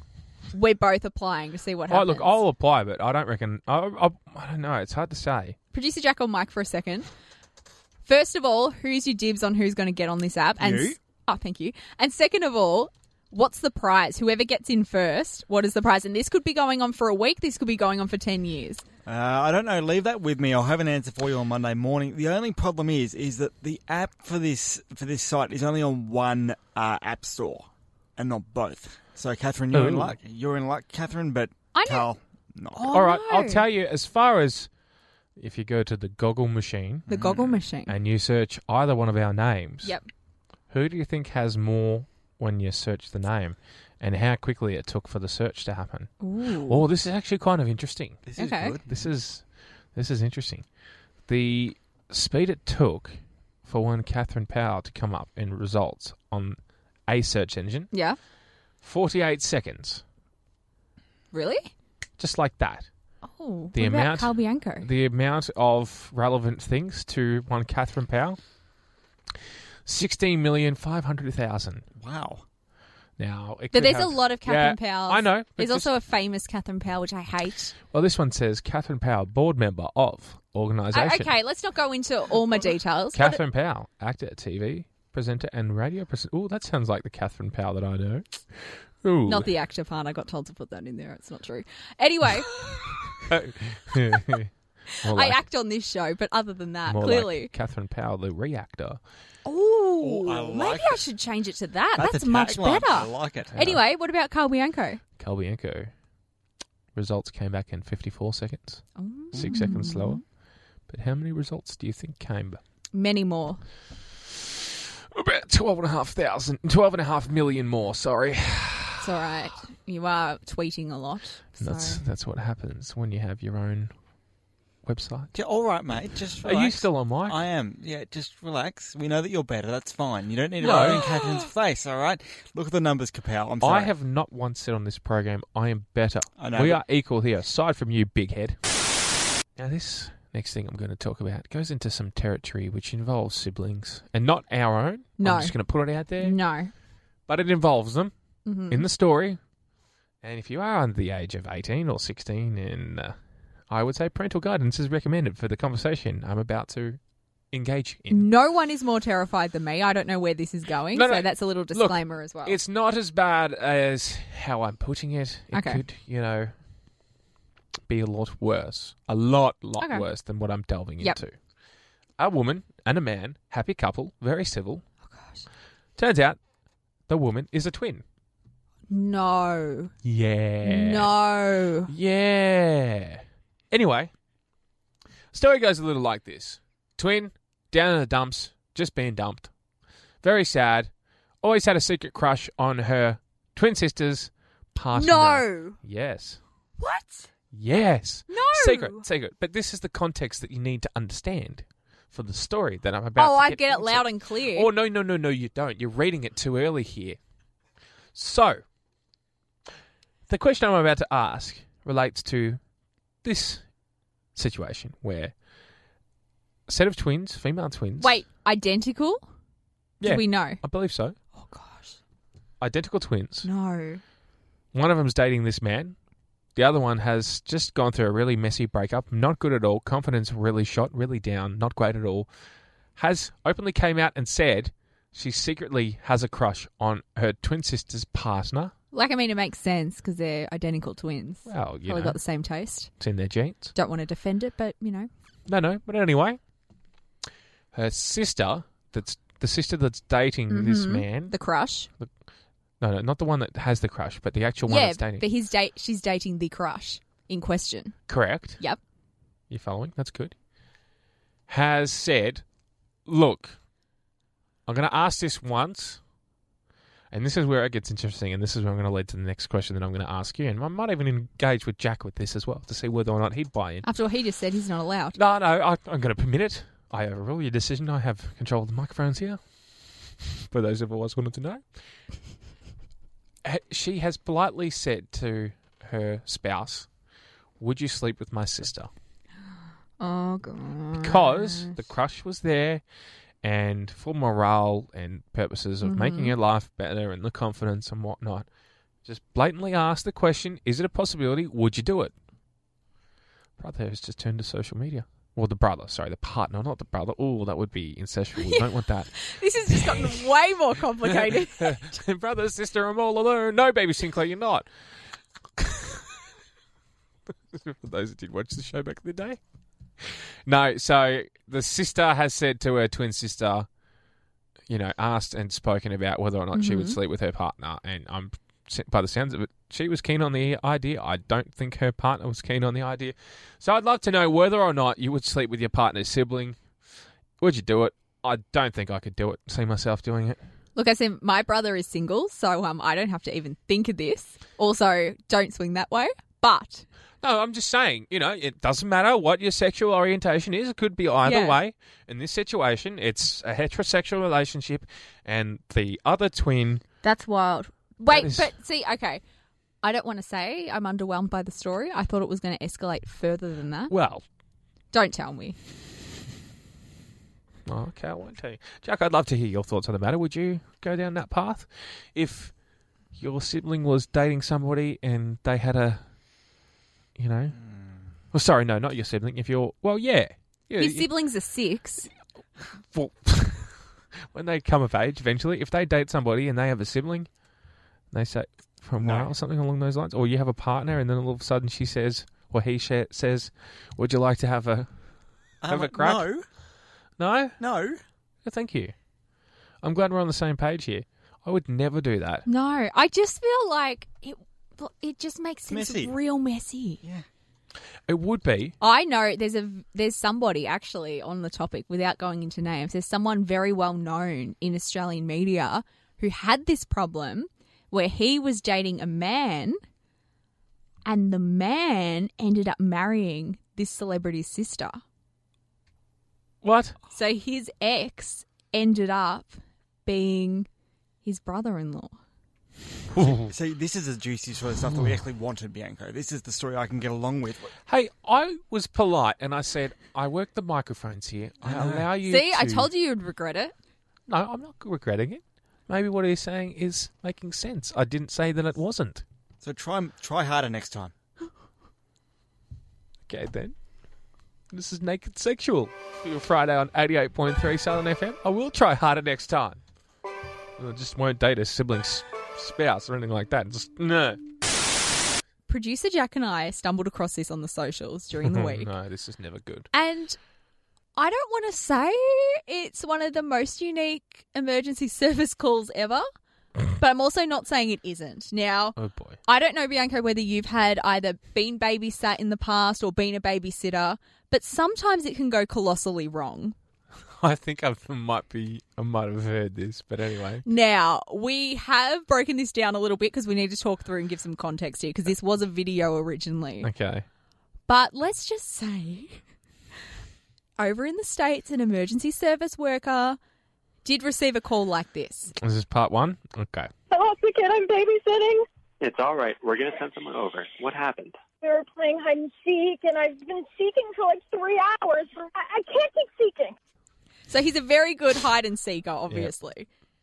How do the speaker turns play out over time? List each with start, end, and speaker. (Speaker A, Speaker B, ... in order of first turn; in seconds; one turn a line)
Speaker A: 0.5-2.4
Speaker B: 1.9-5.6
Speaker A: 5.7-7.1
Speaker A: 8.1-18.8
Speaker C: 10.6-11.0
Speaker C: 19.1-32.9
Speaker B: 29.7-30.1
Speaker A: 31.7-32.1
Speaker A: 32.7-33.6
Speaker B: 32.9-34.7
Speaker B: 35.4-37.1
Speaker C: 37.1-37.6
Speaker A: 37.1-37.9
Speaker B: 37.9-40.0
Speaker B: 40.7-46.1
Speaker A: 46.2-46.8
Speaker B: 46.6-48.2
Speaker C: 48.3-49.1
Speaker A: 48.4-48.8
Speaker B: 48.9-49.4
Speaker B: 49.9-50.6
Speaker B: 51.3-57.9
Speaker A: 57.9-58.2
Speaker B: 58.8-60.0
Speaker A: 61.3-61.7
Speaker B: 62.2-62.9
Speaker A: 63.2-64.9
Speaker B: 63.7-68.4
Speaker B: 69.9-71.8
Speaker C: 72.0-72.4
Speaker B: 73.2-75.9
Speaker A: 73.7-77.8
Speaker B: 77.9-81.3
Speaker A: 80.9-83.4
Speaker B: 83.1-89.5
Speaker A: 89.3-93.0
Speaker B: 93.3-94.5
Speaker B: 95.0-95.4
Speaker A: 95.0-97.5
Speaker B: 96.9-99.0
Speaker A: 99.5-105.0
Speaker C: 100.0-101.0
Speaker C: 102.0-103.5
Speaker B: 103.5-103.8
Speaker B: 105.2-105.9
Speaker B: 107.0-110.2
Speaker A: 109.0-110.2
Speaker C: 109.3-109.6
Speaker B: 110.9-112.6
Speaker A: 112.9-113.6
Speaker B: 115.1-119.1
Speaker A: 119.0-122.0
Speaker B: 121.6-123.9
Speaker B: 124.8-125.3
Speaker C: 125.3-133.9
Speaker B: 126.4-127.4
Speaker B: 130.6-131.1
Speaker A: 130.6-131.4
Speaker B: 133.6-138.6
Speaker C: 136.4-136.8
Speaker B: 139.6-146.4
Speaker A: 145.2-145.5
Speaker A: 146.2-146.7
Speaker B: 147.3-148.1
Speaker A: 148.5-148.9
Speaker B: 148.7-149.4
Speaker B: 150.2-153.2
Speaker B: 153.7-157.0
Speaker B: 157.5-158.3
Speaker A: 158.1-162.6
Speaker B: 160.9-166.5
Speaker A: 165.5-165.8
Speaker B: 167.9-171.4
Speaker A: 169.8-170.1
Speaker B: 172.2-174.8
Speaker A: 175.1-175.4
Speaker B: 176.0-176.4
Speaker B: 177.1-178.0
Speaker A: 178.9-179.9
Speaker B: 180.0-181.2
Speaker A: 180.6-181.9
Speaker B: 181.9-184.1
Speaker B: 185.3-189.5
Speaker B: 190.2-190.9
Speaker B: 191.4-196.4
Speaker A: 194.9-195.8
Speaker A: 196.8-197.3
Speaker B: 197.5-207.2
Speaker A: 198.3-199.1
Speaker A: 203.2-204.7
Speaker B: 208.2-208.6
Speaker B: 210.3-212.6
Speaker B: 213.2-213.7
Speaker B: 214.3-215.3
Speaker B: 216.7-218.2
Speaker A: 218.0-219.2
Speaker B: 220.0-221.2
Speaker A: 220.0-220.6
Speaker A: 221.3-222.0
Speaker B: 222.6-223.5
Speaker A: 223.4-224.0
Speaker B: 224.7-226.0
Speaker B: 226.6-232.3
Speaker B: 233.0-238.7
Speaker A: 238.9-242.9
Speaker B: 241.5-242.2
Speaker B: 243.0-243.7
Speaker A: 243.8-245.1
Speaker B: 245.5-246.4
Speaker B: 247.7-251.3
Speaker A: 250.5-251.9
Speaker B: 252.8-255.3
Speaker A: 254.7-258.0
Speaker B: 258.1-258.6
Speaker B: 259.5-260.4
Speaker B: 261.5-262.4
Speaker B: 263.1-263.6
Speaker B: 264.7-266.0
Speaker B: 267.1-273.9
Speaker A: 273.8-275.2
Speaker B: 275.1-279.4
Speaker B: 280.2-281.6
Speaker B: 283.4-286.9
Speaker B: 287.6-288.9
Speaker A: 290.0-291.8
Speaker B: 291.0-292.8
Speaker B: 293.4-298.5
Speaker A: 295.8-296.3
Speaker B: 299.1-302.1
Speaker B: 303.6-309.1
Speaker A: 308.4-311.9
Speaker B: 309.7-310.2
Speaker B: 311.0-314.7
Speaker B: 315.6-316.1
Speaker B: 317.5-319.4
Speaker B: 320.0-323.7
Speaker B: 324.7-336.6
Speaker A: 326.5-327.0
Speaker B: 337.4-340.4
Speaker A: 340.8-346.9
Speaker B: 347.2-356.8
Speaker A: 351.2-351.6
Speaker A: 357.0-359.2
Speaker B: 358.1-358.5
Speaker A: 359.8-363.9
Speaker B: 363.9-364.2
Speaker A: 364.9-365.6
Speaker B: 367.7-372.5
Speaker B: 373.1-376.0
Speaker B: 377.2-377.6
Speaker C: 377.6-378.0
Speaker B: 378.3-381.1
Speaker A: 380.8-382.1
Speaker B: 382.8-383.8
Speaker B: 384.3-387.3
Speaker B: 388.1-394.9
Speaker C: 389.0-389.3
Speaker C: 395.6-396.4
Speaker B: 395.7-396.3
Speaker B: 397.2-397.6
Speaker C: 397.6-398.0
Speaker B: 398.4-398.9
Speaker B: 399.8-402.4
Speaker A: 402.5-407.0
Speaker C: 405.7-406.1
Speaker B: 408.1-408.8
Speaker A: 408.8-419.8
Speaker A: 421.1-425.0
Speaker B: 426.6-427.0
Speaker A: 427.1-430.7
Speaker A: 431.2-432.1
Speaker B: 433.1-433.5
Speaker C: 433.4-437.7
Speaker B: 437.9-442.9
Speaker C: 441.6-442.1
Speaker A: 442.2-443.7
Speaker B: 444.3-449.2
Speaker C: 449.6-451.1
Speaker B: 453.3-453.8
Speaker B: 454.7-459.8
Speaker B: 460.8-464.4
Speaker A: 465.7-468.9
Speaker B: 468.4-469.9
Speaker A: 469.9-470.4
Speaker A: 471.2-476.2
Speaker A: 476.9-486.8
Speaker B: 479.0-479.4
Speaker B: 487.4-490.6
Speaker A: 490.6-496.9
Speaker B: 496.8-497.3
Speaker A: 497.9-499.4
Speaker A: 500.8-503.4
Speaker A: 504.1-505.5
Speaker B: 505.6-506.9
Speaker D: 507.1-508.6
Speaker E: 509.0-511.4
Speaker D: 511.6-516.8
Speaker A: 517.5-519.9